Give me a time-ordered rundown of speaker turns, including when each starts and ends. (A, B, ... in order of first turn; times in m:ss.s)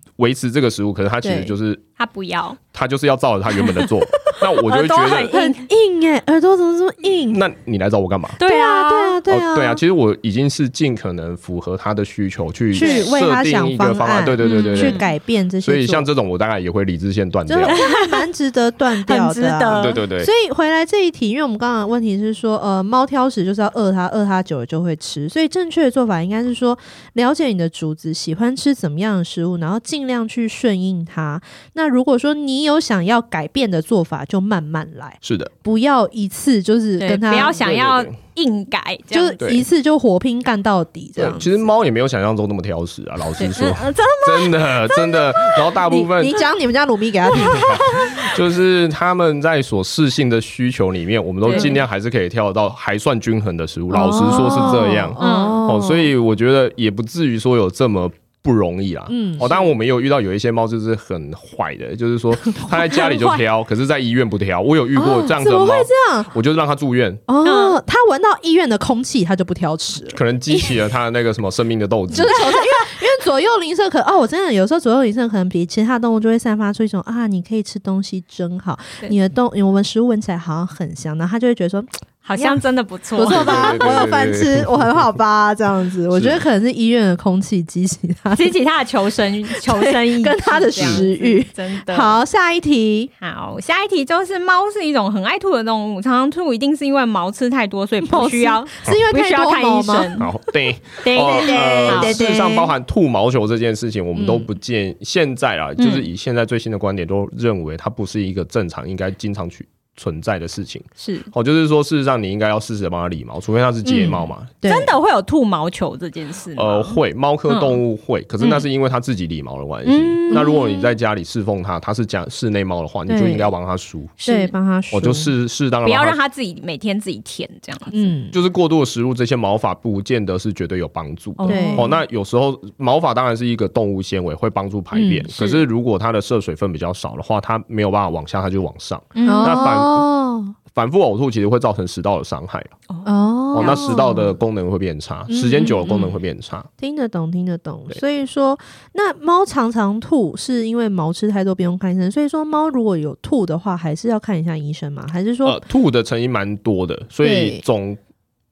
0:00.2-0:01.8 A
0:01.2-0:01.5 B
0:02.0-0:02.6 C
0:02.7-0:05.3 A
0:04.6-0:05.7 C
0:05.2-0:07.4 B
0:07.3-0:08.4 A
0:08.4-0:09.2 C
0:08.4-0:09.8 B
0:09.3-0:15.0 A
0:12.7-0:16.1 B
0:12.8-0:13.0 C
0:14.4-0:15.1 C
0:15.6-0:17.8 A
0:17.5-0:37.6 B
0:17.7-0:18.2 C
0:19.0-0:20.0 C
0:19.7-0:20.3 A
0:35.2-0:35.5 A
0:37.0-0:39.4 C
0:37.3-0:38.2 A
0:39.1-0:41.7 B
0:39.4-0:39.6 A
0:41.2-0:46.4 A
0:43.4-0:45.8 C
0:45.9-0:48.1 B
0:47.3-0:48.4 C
0:47.4-1:07.2 A
0:51.4-0:51.8 C
0:53.9-0:56.1 B
0:54.3-0:55.6 C
0:59.1-0:59.5 B
1:02.9-1:03.4 C
1:04.9-1:06.3 B
1:07.3-1:10.2 B
1:07.4-1:07.8 C
1:10.1-1:12.4 A
1:12.1-1:22.6 B
1:22.2-1:23.8 C
1:23.1-1:28.5 B
1:23.3-1:24.8 A
1:26.1-1:26.4 A
1:28.4-1:32.2 C
1:29.5-1:33.1 B
1:30.8-1:31.0 A
1:33.2-1:40.3 C
1:38.0-1:40.2 B
1:40.2-1:54.5 A
1:41.0-1:42.2 C
1:41.1-1:42.7 B
1:44.1-1:44.5 B
1:45.8-1:46.1 C
1:51.0-1:51.3 C
1:53.8-1:54.9 B
1:54.6-1:57.8 C
1:56.5-2:04.2 A
1:58.4-1:58.6 C
1:59.8-2:00.9 C
2:00.3-2:00.6 B
2:03.1-2:03.5 B
2:04.2-2:04.5 C
2:04.2-2:05.3 B
2:04.9-2:06.2 A
2:05.8-2:08.1 C
2:07.9-2:08.4 B
2:08.3-2:20.0 A
2:11.4-2:11.9 C
2:11.5-2:11.9 B
2:14.9-2:15.2 B
2:15.3-2:15.6 C
2:19.1-2:19.8 C
2:19.2-2:20.5 B
2:20.7-2:22.7 A
2:22.9-2:24.2 C
2:23.0-2:24.3 B
2:23.5-2:26.7 A
2:25.3-2:26.0 B
2:25.8-2:26.1 C
2:26.8-2:35.6 B
2:35.4-2:38.0 A
2:37.2-2:37.6 B